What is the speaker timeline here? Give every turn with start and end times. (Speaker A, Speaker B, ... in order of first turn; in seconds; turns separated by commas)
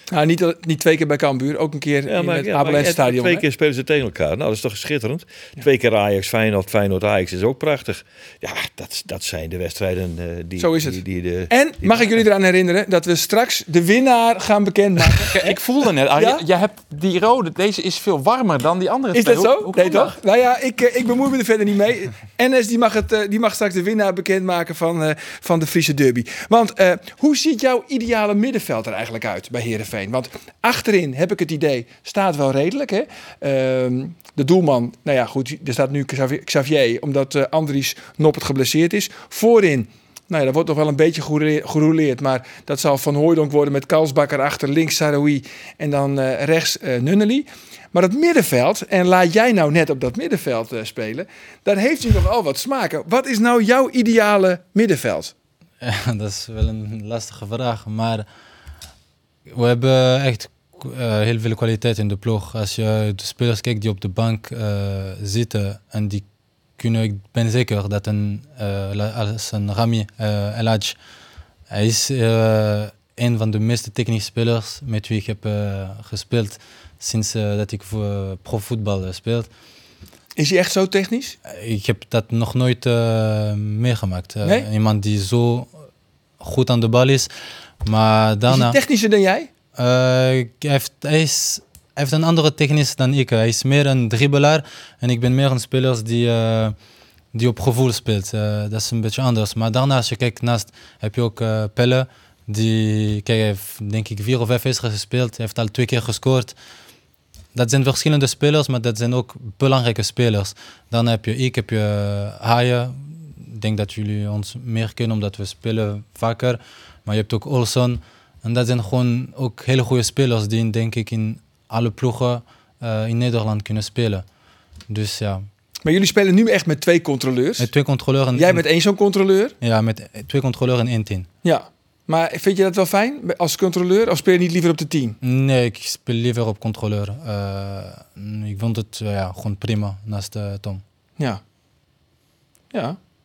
Speaker A: 0.1-3.4, Speaker B: 2.1-12.2, Speaker A: 10.6-15.6, Speaker C: 15.2-20.1, Speaker A: 16.1-16.4, Speaker A: 19.1-55.3, Speaker D: 55.8-58.2, Speaker D: 59.5-66.2, Speaker D: 66.8-71.0, Speaker D: 71.7-79.5, Speaker A: 80.3-81.4, Speaker D: 81.5-85.7, Speaker A: 84.4-84.7, Speaker D: 86.4-87.3, Speaker D: 87.8-88.8, Speaker A: 88.5-89.5, Speaker D: 89.8-96.7, Speaker D: 97.3-106.5, Speaker D: 107.5-124.2, Speaker D: 124.9-125.4, Speaker A: 125.8-127.7, Speaker D: 127.6-128.7, Speaker A: 128.3-129.5, Speaker D: 129.6-131.3, Speaker A: 131.4-135.2, Speaker D: 135.2-140.8, Speaker A: 142.7-143.0